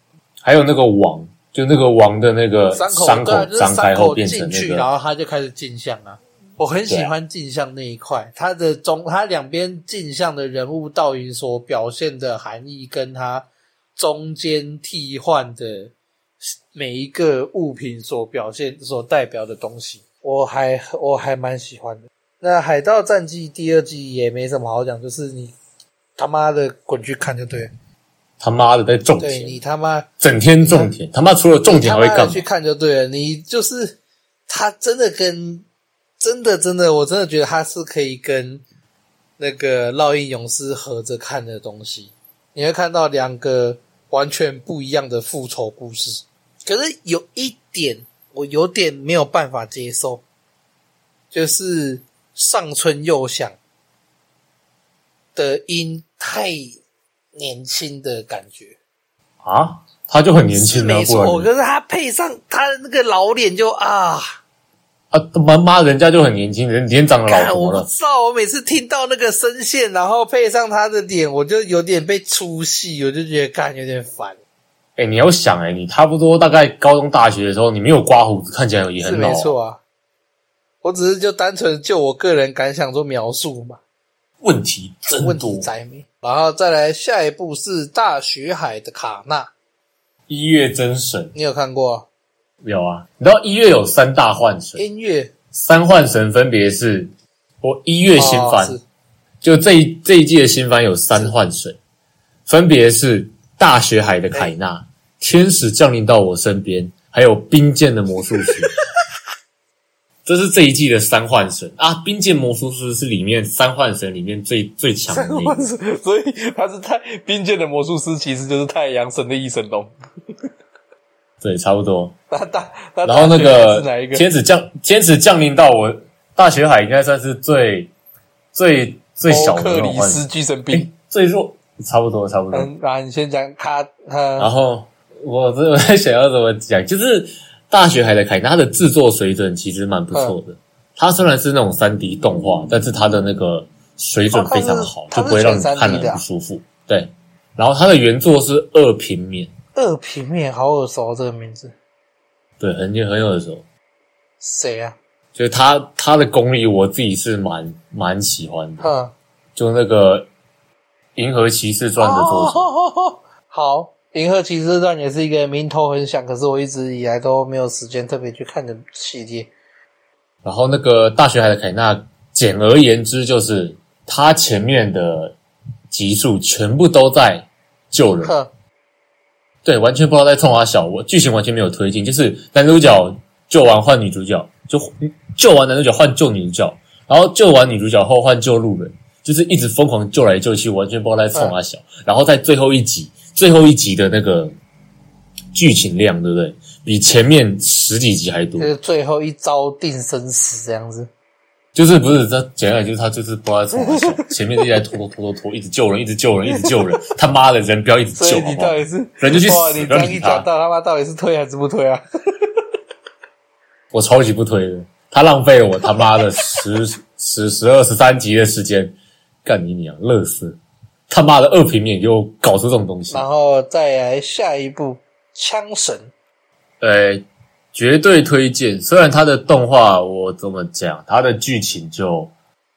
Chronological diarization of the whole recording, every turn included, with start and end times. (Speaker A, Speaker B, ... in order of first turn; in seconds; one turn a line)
Speaker A: 0.4-4.9
Speaker B: 2.7-25.6
Speaker B: 26.2-27.7
Speaker A: 28.4-29.6
Speaker B: 29.2-30.1
Speaker A: 30.2-32.4
Speaker B: 30.6-30.9
Speaker B: 31.6-34.0
Speaker B: 34.5-35.6
Speaker B: 36.2-38.6
Speaker B: 39.4-50.2
Speaker B: 51.3-53.6
Speaker B: 55.3-56.8
Speaker B: 57.3-58.8
Speaker A: 59.4-61.5
Speaker B: 60.5-64.3
Speaker A: 65.1-67.9
Speaker B: 67.3-74.4
Speaker A: 75.0-79.5
Speaker B: 79.0-79.8
Speaker B: 80.8-83.8
Speaker A: 84.4-85.7
Speaker B: 85.1-89.5
Speaker A: 90.3-91.3
Speaker B: 91.3-92.1
Speaker A: 92.6-94.8
Speaker B: 94.8-95.3
Speaker A: 95.5-98.8
Speaker B: 98.2-98.8
Speaker A: 99.4-101.8
Speaker A: 102.5-108.8
Speaker A: 110.2-115.7
Speaker B: 115.1-120.0
Speaker A: 121.4-122.1
Speaker B: 122.3-124.2
Speaker A: 123.0-127.9
Speaker A: 128.5-132.7
Speaker B: 129.3-130.9
Speaker B: 132.5-134.5
Speaker A: 134.4-149.5
Speaker B: 140.1-140.4
Speaker B: 144.3-146.2
Speaker B: 149.7-151.7
Speaker A: 152.6-153.6
Speaker B: 154.4-154.9
Speaker A: 155.3-158.9
Speaker B: 158.8-159.1
Speaker A: 159.6-160.3
Speaker A: 161.2-162.7
Speaker B: 162.0-169.5
Speaker A: 170.4-175.3
Speaker A: 175.9-178.3
Speaker B: 178.2-178.5
Speaker A: 179.6-194.5
Speaker A: 195.5-198.7
Speaker B: 198.6-201.1
Speaker A: 201.7-210.5
Speaker B: 203.7-204.2
Speaker B: 206.5-206.9
Speaker B: 208.2-212.5
Speaker A: 213.9-223.2
Speaker B: 215.8-216.6
Speaker B: 223.1-226.1
Speaker A: 226.8-232.3